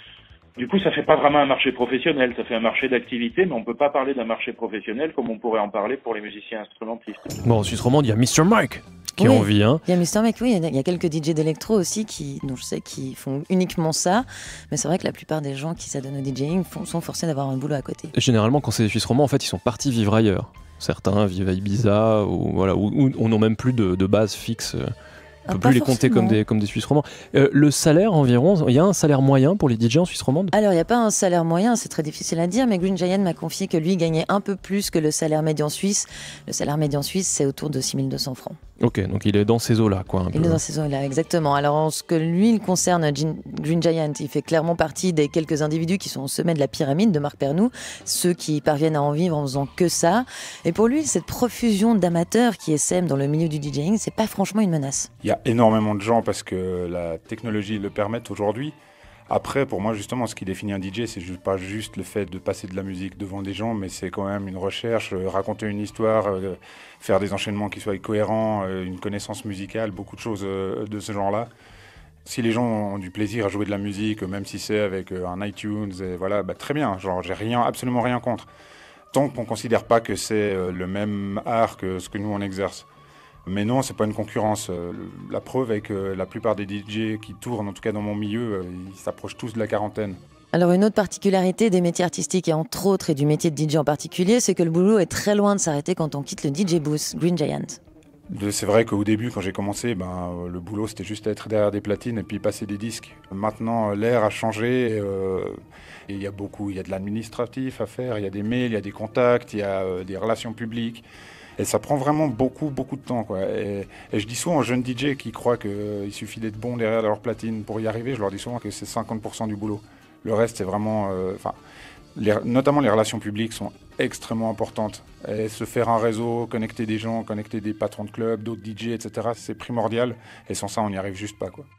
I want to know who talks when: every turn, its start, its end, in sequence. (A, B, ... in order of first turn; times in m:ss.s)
0:00.6-0:07.2 A
0:07.4-0:09.8 B
0:09.2-0:18.1 C
0:18.1-0:24.9 B
0:25.5-0:26.4 C
0:25.5-0:30.5 B
0:30.5-0:38.6 C
0:38.8-0:40.6 B
0:40.3-0:55.1 C
0:55.2-0:58.7 D
0:59.3-1:11.5 D
1:12.2-1:18.5 D
1:19.1-1:22.9 D
1:23.4-1:30.2 D
1:30.5-1:37.8 C
1:38.3-1:45.6 D
1:46.1-1:51.0 D
1:51.6-2:01.6 D
2:02.1-2:11.7 D